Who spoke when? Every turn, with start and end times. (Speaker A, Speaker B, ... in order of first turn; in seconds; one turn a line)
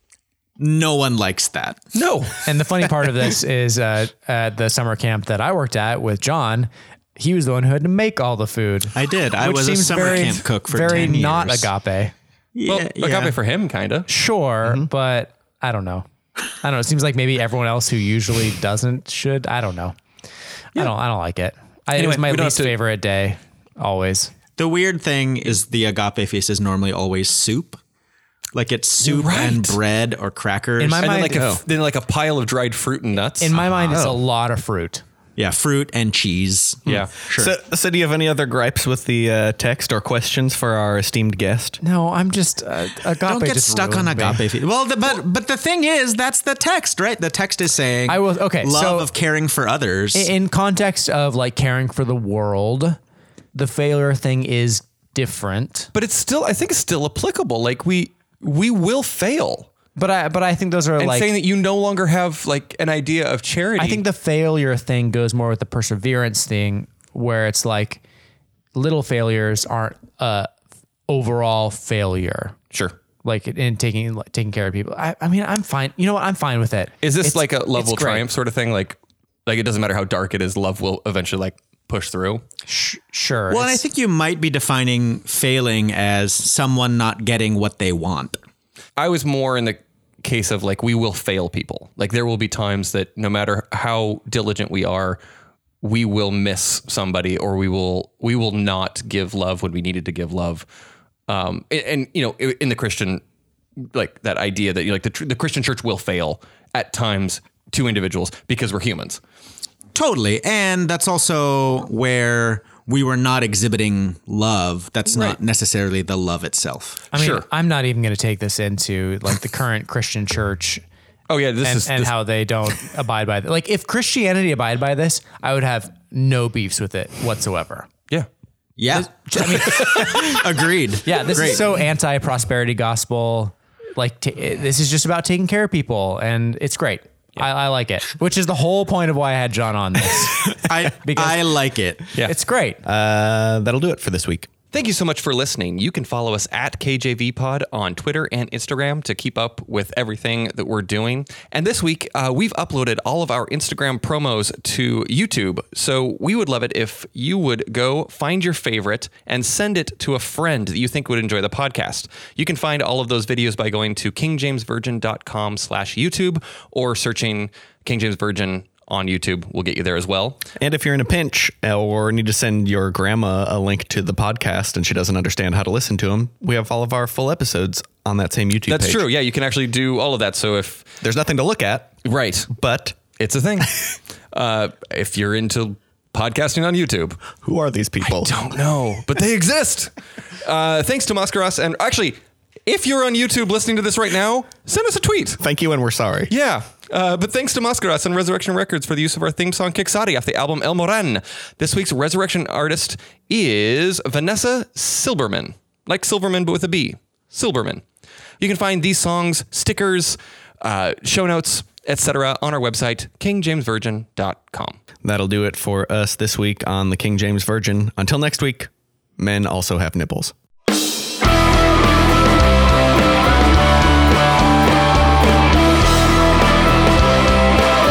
Speaker A: 0.6-1.8
Speaker B: 1.9-2.4
Speaker C: 2.4-12.1
Speaker A: 8.9-11.7
Speaker A: 12.5-13.3
Speaker B: 12.7-14.1
Speaker C: 14.1-16.1
Speaker C: 16.6-20.0
Speaker C: 20.7-24.3
Speaker B: 21.9-22.7
Speaker A: 24.6-27.8
Speaker A: 28.5-31.0
Speaker B: 29.0-29.8
Speaker C: 30.8-31.6
Speaker B: 31.0-33.6
Speaker D: 31.3-31.6
Speaker C: 33.4-35.0
Speaker D: 33.7-34.2
Speaker A: 35.4-37.5
Speaker B: 36.9-37.1
Speaker D: 36.9-41.8
Speaker C: 41.8-44.5
Speaker A: 43.2-50.3
Speaker C: 48.1-49.1
Speaker C: 50.1-53.0
Speaker C: 53.5-55.9
Speaker B: 55.9-59.7
Speaker C: 60.0-61.3
Speaker B: 61.0-64.0
Speaker C: 63.8-68.0
Speaker C: 68.7-70.5
Speaker C: 71.1-72.5
Speaker C: 73.2-78.2
Speaker B: 77.0-82.4
Speaker C: 82.7-83.8
Speaker A: 83.5-88.4
Speaker B: 89.0-95.2
Speaker B: 95.8-100.7
Speaker B: 101.3-103.2
Speaker B: 103.9-109.2
Speaker A: 109.9-117.0
Speaker B: 115.1-115.4
Speaker B: 117.1-117.4
Speaker C: 117.1-120.8
Speaker B: 121.3-122.2
Speaker C: 121.6-127.9
Speaker A: 128.8-131.7
Speaker C: 128.9-130.4
Speaker B: 129.6-130.2
Speaker C: 131.0-141.4
Speaker A: 140.5-142.1
Speaker C: 142.2-142.8
Speaker D: 142.8-144.5
Speaker B: 144.7-170.5
Speaker D: 170.6-179.1
Speaker B: 178.7-181.0
Speaker D: 181.0-181.9
Speaker B: 182.0-182.5
Speaker D: 182.5-183.0
Speaker B: 183.2-187.2
Speaker D: 187.4-188.4
Speaker B: 188.0-195.4
Speaker D: 195.4-196.3
Speaker B: 196.3-207.8
Speaker B: 208.4-214.8
Speaker D: 215.0-220.3